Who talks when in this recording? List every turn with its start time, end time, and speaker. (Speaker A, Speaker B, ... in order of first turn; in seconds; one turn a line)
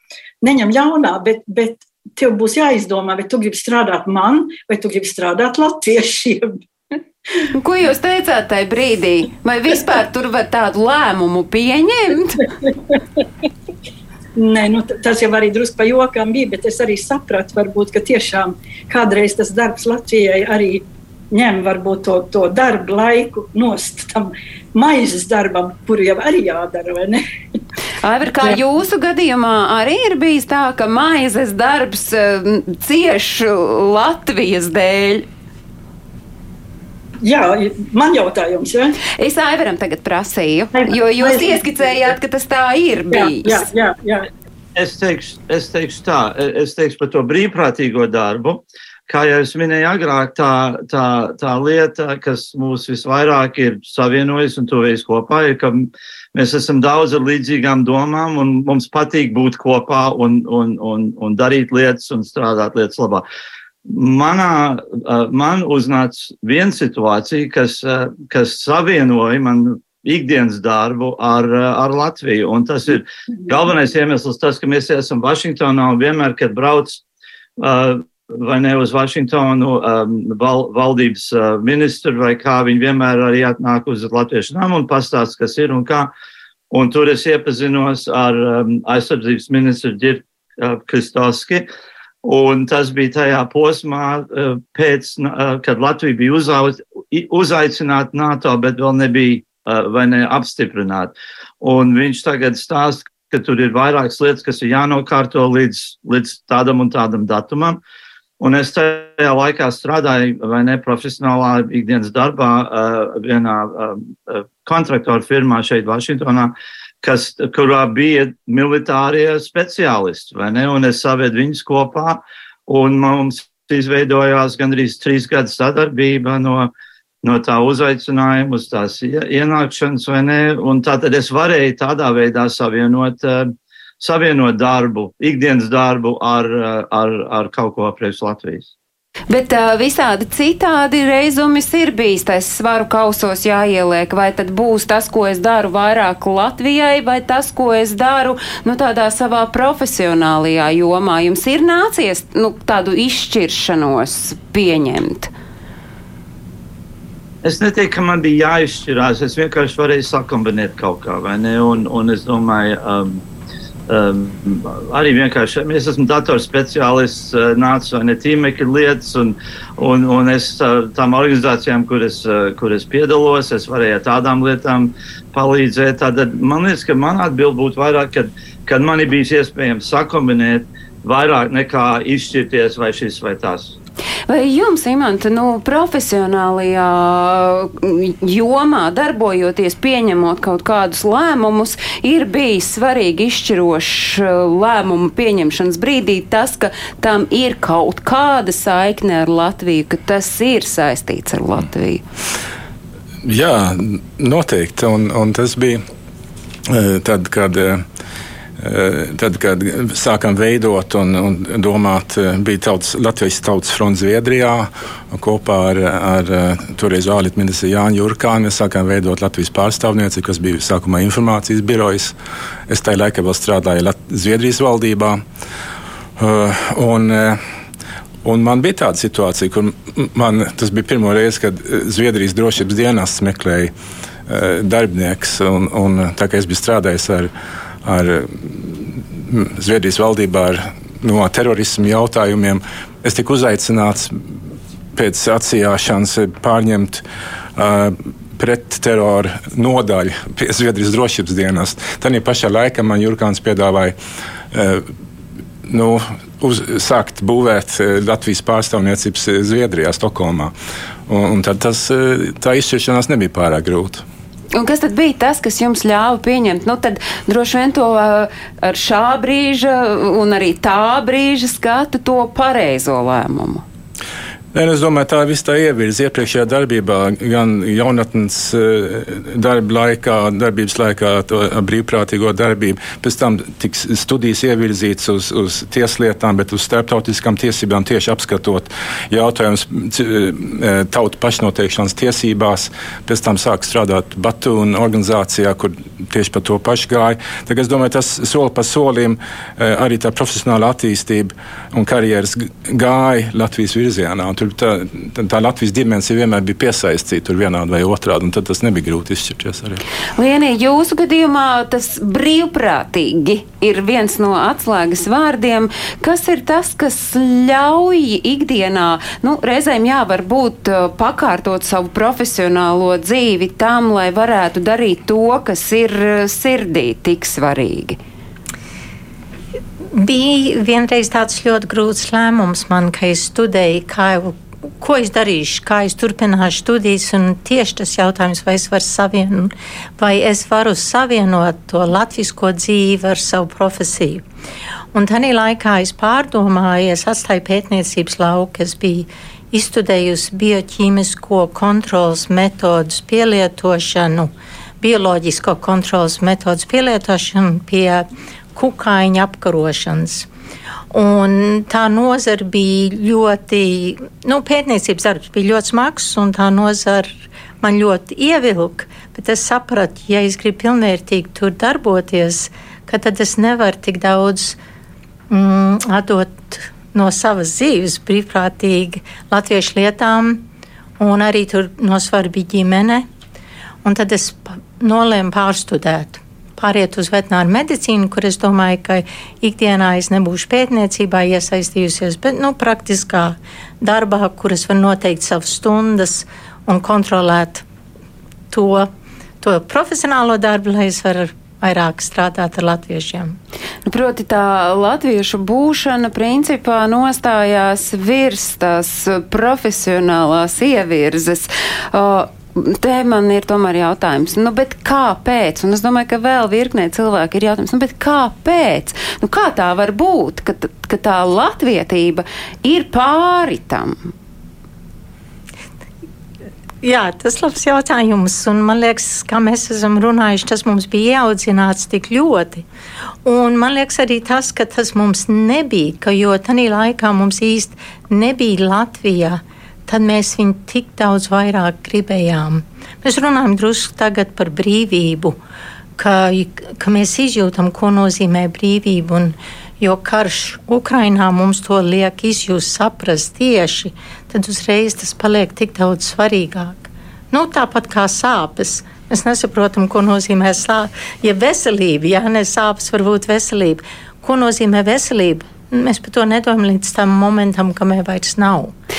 Speaker A: 0.4-6.6
Speaker B: 7.5-12.5
Speaker A: 14.4-27.2
Speaker B: 28.0-35.3
Speaker A: 37.2-39.0
Speaker B: 39.2-43.6
Speaker A: 40.8-41.6
Speaker A: 43.1-44.3
Speaker C: 44.8-63.2
Speaker C: 63.9-77.0
Speaker C: 77.6-86.1
Speaker C: 86.7-91.7
Speaker C: 92.2-107.8
Speaker C: 108.4-126.7
Speaker C: 127.2-138.7
Speaker B: 139.3-155.3
Speaker C: 157.4-163.2
Speaker C: 163.9-183.8
Speaker B: 184.3-202.0
Speaker D: 203.2-205.8
Speaker D: 206.7-207.8
Speaker D: 208.6-222.2
Speaker D: 222.7-225.2
Speaker D: 226.2-227.4
Speaker D: 228.2-233.7
Speaker D: 234.3-237.3
Speaker D: 237.8-244.2
Speaker D: 244.9-247.0
Speaker D: 247.6-254.0
Speaker D: 254.5-254.8
Speaker D: 255.7-260.5
Speaker D: 261.1-264.1
Speaker B: 264.5-273.6
Speaker D: 274.5-309.8
Speaker B: 310.2-328.0
Speaker E: 329.9-344.2
Speaker E: 344.9-360.3
Speaker E: 360.9-374.6
Speaker E: 375.3-380.4
Speaker E: 381.0-383.1
Speaker E: 383.8-397.6
Speaker E: 398.5-398.9
Speaker E: 399.4-403.4
Speaker B: 403.9-424.1
Speaker E: 426.8-432.6
Speaker E: 433.2-445.4
Speaker E: 446.0-468.7